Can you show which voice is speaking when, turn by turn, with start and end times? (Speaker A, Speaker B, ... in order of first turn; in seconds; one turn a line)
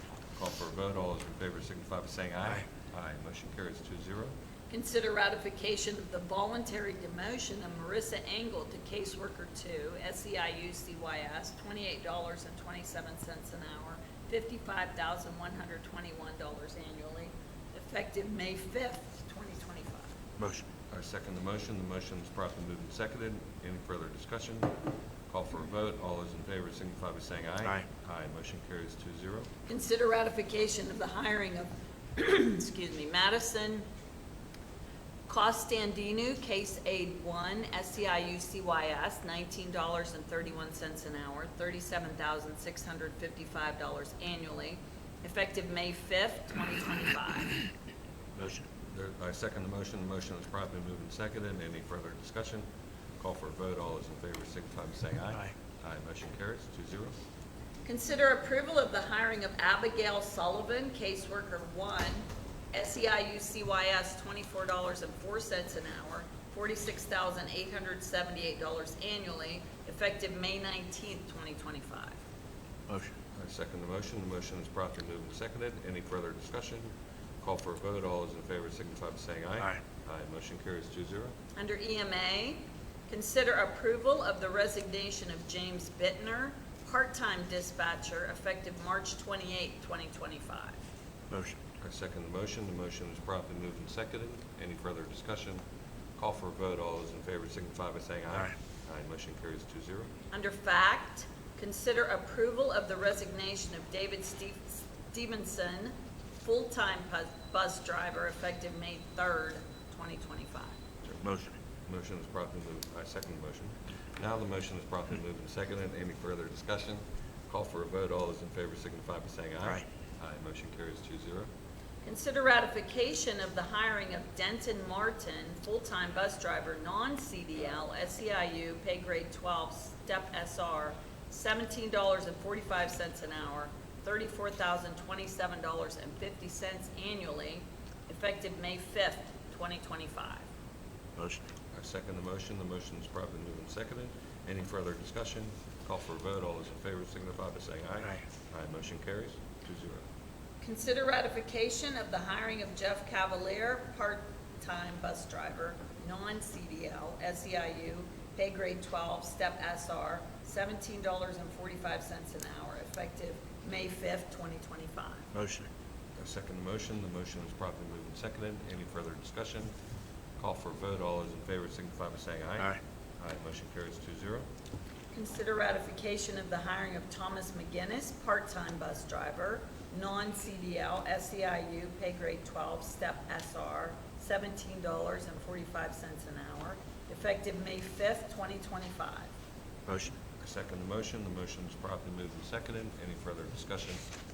Speaker A: 0.3-4.3
Speaker B: 4.7-20.1
Speaker C: 20.4-20.6
Speaker A: 20.9-24.7
Speaker A: 25.3-29.5
Speaker B: 29.7-33.8
Speaker B: 35.3-47.6
Speaker C: 48.4-48.6
Speaker A: 48.9-52.6
Speaker A: 53.2-57.1
Speaker B: 57.8-72.2
Speaker A: 73.3-81.3
Speaker B: 81.5-90.8
Speaker C: 91.3-91.6
Speaker A: 91.8-95.6
Speaker A: 96.2-100.1
Speaker B: 100.3-110.8
Speaker C: 111.2-111.5
Speaker A: 111.8-121.5
Speaker B: 122.0-140.4
Speaker C: 141.2-141.4
Speaker A: 141.7-150.0
Speaker B: 150.6-165.2
Speaker C: 165.3-165.7
Speaker A: 166.2-169.7
Speaker A: 170.4-174.5
Speaker B: 175.1-189.3
Speaker C: 189.9-190.1
Speaker A: 190.4-194.1